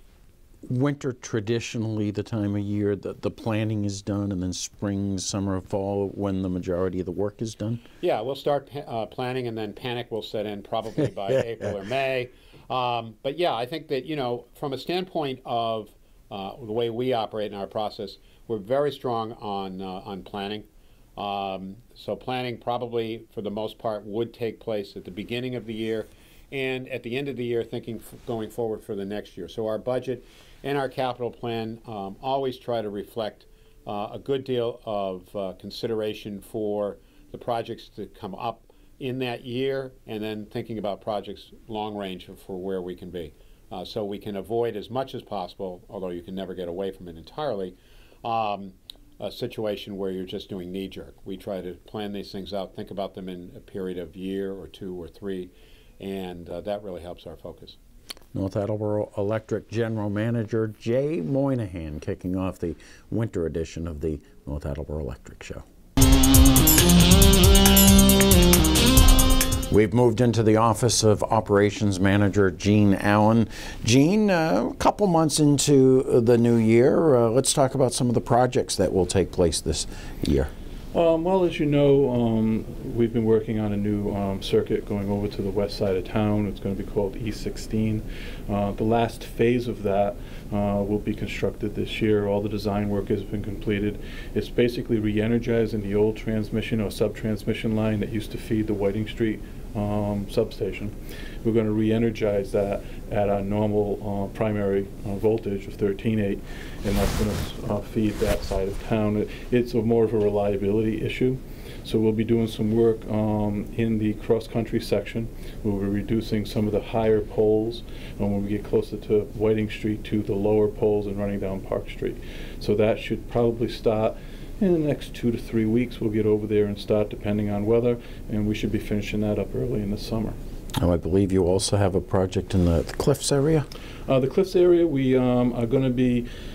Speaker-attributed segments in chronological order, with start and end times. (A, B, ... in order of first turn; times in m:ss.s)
0:00.6-0:07.8 A
0:08.0-0:57.8 B
0:58.3-1:05.6 A
1:09.7-1:20.5 A
1:20.9-2:10.4 C
2:10.8-2:13.7 A
2:14.1-2:16.3 C